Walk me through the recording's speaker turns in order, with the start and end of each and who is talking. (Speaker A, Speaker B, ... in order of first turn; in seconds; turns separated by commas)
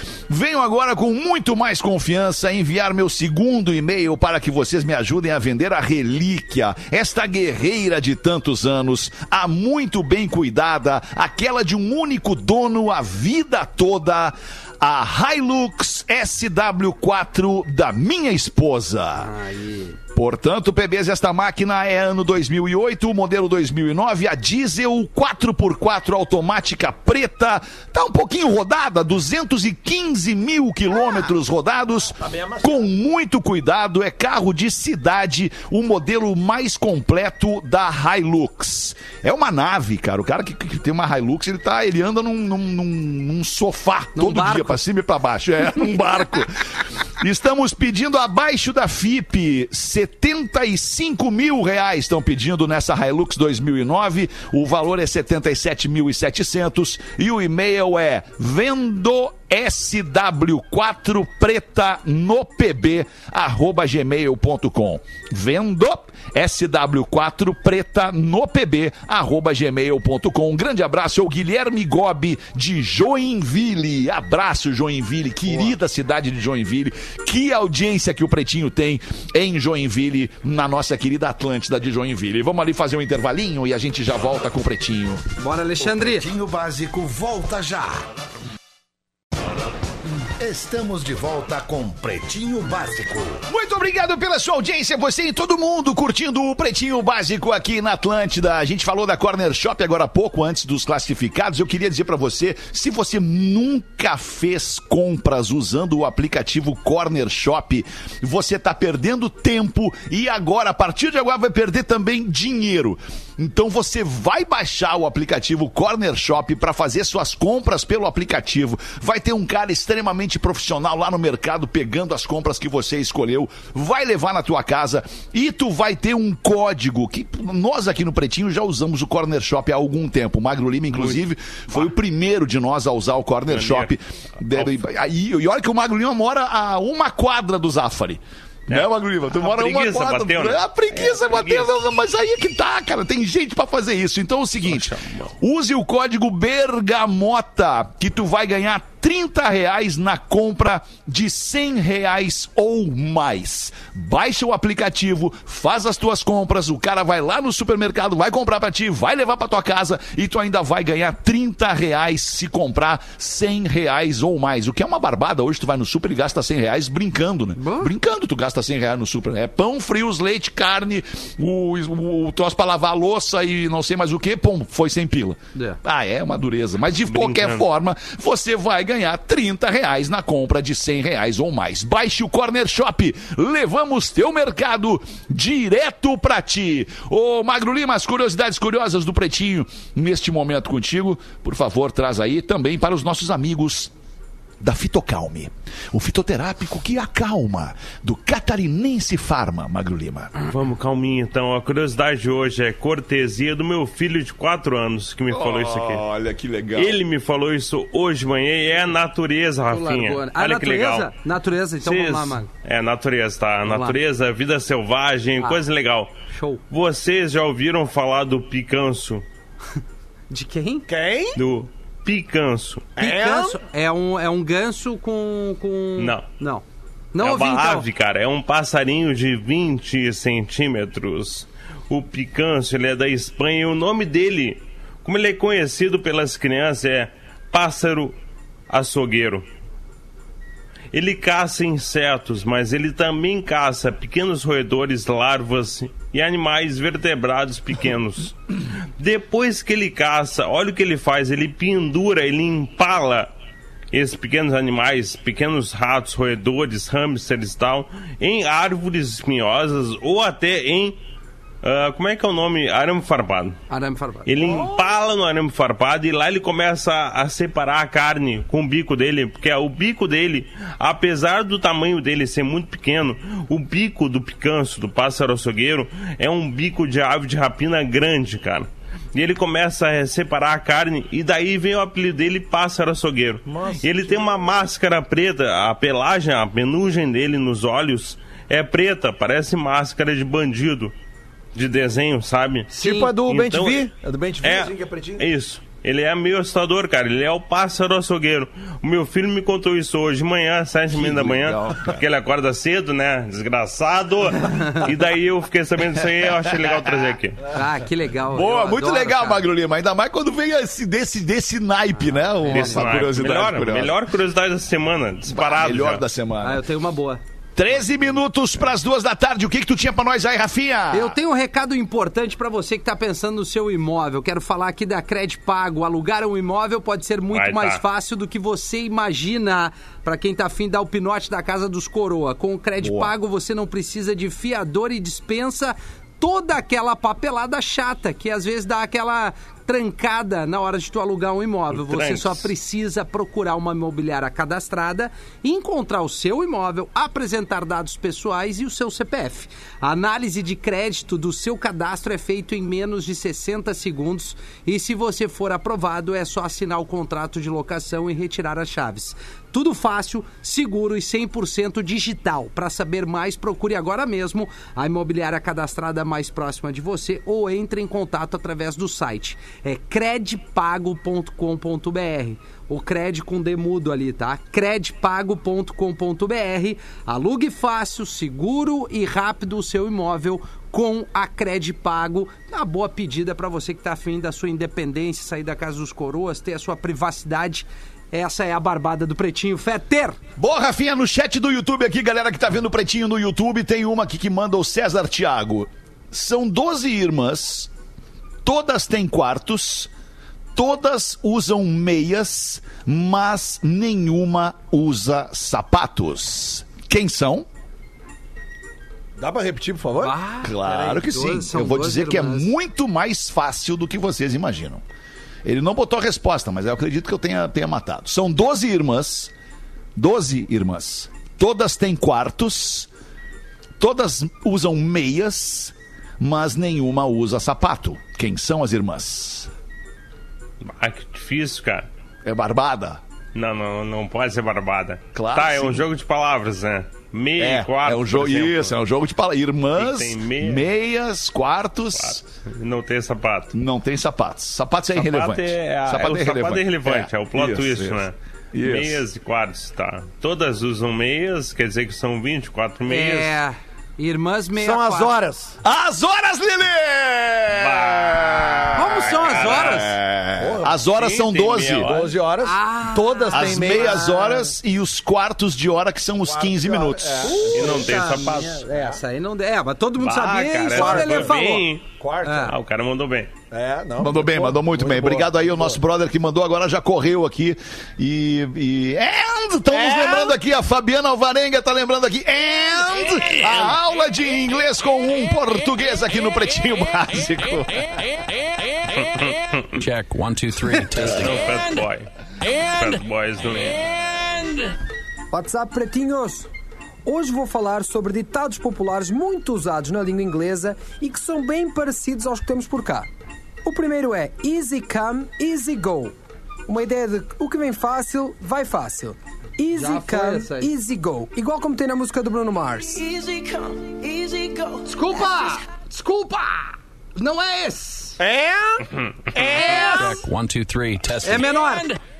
Speaker A: 0.3-19.3, Speaker B: 19.2-20.0, Speaker A: 20.1-85.2, Speaker C: 32.2-32.9, Speaker B: 44.1-44.8, Speaker B: 85.4-86.3, Speaker D: 86.0-88.0, Speaker D: 90.4-93.4, Speaker A: 93.5-193.9, Speaker E: 130.9-131.9, Speaker E: 133.5-134.8, Speaker E: 138.7-141.7, Speaker E: 144.7-145.3, Speaker B: 167.6-167.9, Speaker E: 177.1-177.7, Speaker A: 194.6-200.3, Speaker E: 200.4-206.1, Speaker A: 205.3-207.0, Speaker E: 206.7-211.1, Speaker B: 209.7-212.5, Speaker E: 211.8-216.1, Speaker B: 213.7-213.9, Speaker B: 215.4-215.6, Speaker B: 216.3-216.6, Speaker E: 216.7-219.2, Speaker B: 220.3-220.9, Speaker C: 220.9-221.4, Speaker E: 221.3-222.9, Speaker C: 222.9-223.6, Speaker B: 223.0-227.9, Speaker E: 226.0-226.2, Speaker E: 227.2-238.2, Speaker E: 238.7-239.4, Speaker E: 240.9-253.3, Speaker E: 253.9-261.0, Speaker E: 261.6-263.6, Speaker B: 263.7-264.3, Speaker E: 264.2-290.9, Speaker C: 264.4-264.8, Speaker C: 283.5-284.5, Speaker E: 291.5-293.9, Speaker C: 292.7-295.2, Speaker E: 294.4-307.5, Speaker A: 300.9-302.0, Speaker A: 306.2-307.1, Speaker B: 307.5-309.4, Speaker A: 308.3-313.9, Speaker B: 312.5-312.8, Speaker E: 312.5-316.0, Speaker A: 315.3-316.6, Speaker B: 316.4-317.2, Speaker A: 317.6-321.2, Speaker B: 320.9-390.2, Speaker E: 327.3-327.8, Speaker A: 332.8-333.1, Speaker E: 341.7-342.5, Speaker A: 390.4-397.7, Speaker A: 398.4-399.9, Speaker A: 400.6-407.5, Speaker C: 409.2-410.1, Speaker B: 410.0-412.5, Speaker A: 410.4-414.8, Speaker A: 415.4-419.3, Speaker A: 419.9-422.9, Speaker A: 423.8-429.5, Speaker E: 430.6-431.9, Speaker A: 432.2-433.0, Speaker E: 433.3-438.8, Speaker A: 435.1-435.9, Speaker A: 437.4-442.2, Speaker E: 439.7-440.7, Speaker E: 441.9-443.5, Speaker A: 443.5-449.0, Speaker E: 444.9-453.3, Speaker B: 452.9-455.1, Speaker C: 454.6-455.6, Speaker A: 455.6-461.9, Speaker E: 457.5-459.9, Speaker B: 458.7-459.9, Speaker C: 460.4-460.8, Speaker E: 460.9-462.2, Speaker C: 461.8-464.3, Speaker B: 462.4-464.4, Speaker A: 463.3-467.6, Speaker C: 466.2-469.0, Speaker B: 467.2-471.7, Speaker E: 467.5-468.6, Speaker E: 470.0-473.3, Speaker C: 470.7-471.3, Speaker C: 472.0-472.5, Speaker B: 472.2-472.5, Speaker C: 473.5-475.8, Speaker A: 474.0-488.1, Speaker C: 479.7-480.4, Speaker E: 489.0-489.7, Speaker F: 489.8-491.8, Speaker E: 490.9-494.0, Speaker F: 492.4-493.0, Speaker F: 494.2-494.6, Speaker G: 495.3-496.5, Speaker G: 497.1-503.1, Speaker G: 503.6-506.1, Speaker G: 506.7-513.0, Speaker B: 509.7-510.7, Speaker H: 512.9-515.2, Speaker B: 514.9-518.2, Speaker C: 518.2-520.1, Speaker B: 519.5-520.2, Speaker F: 519.6-522.0, Speaker B: 521.2-522.0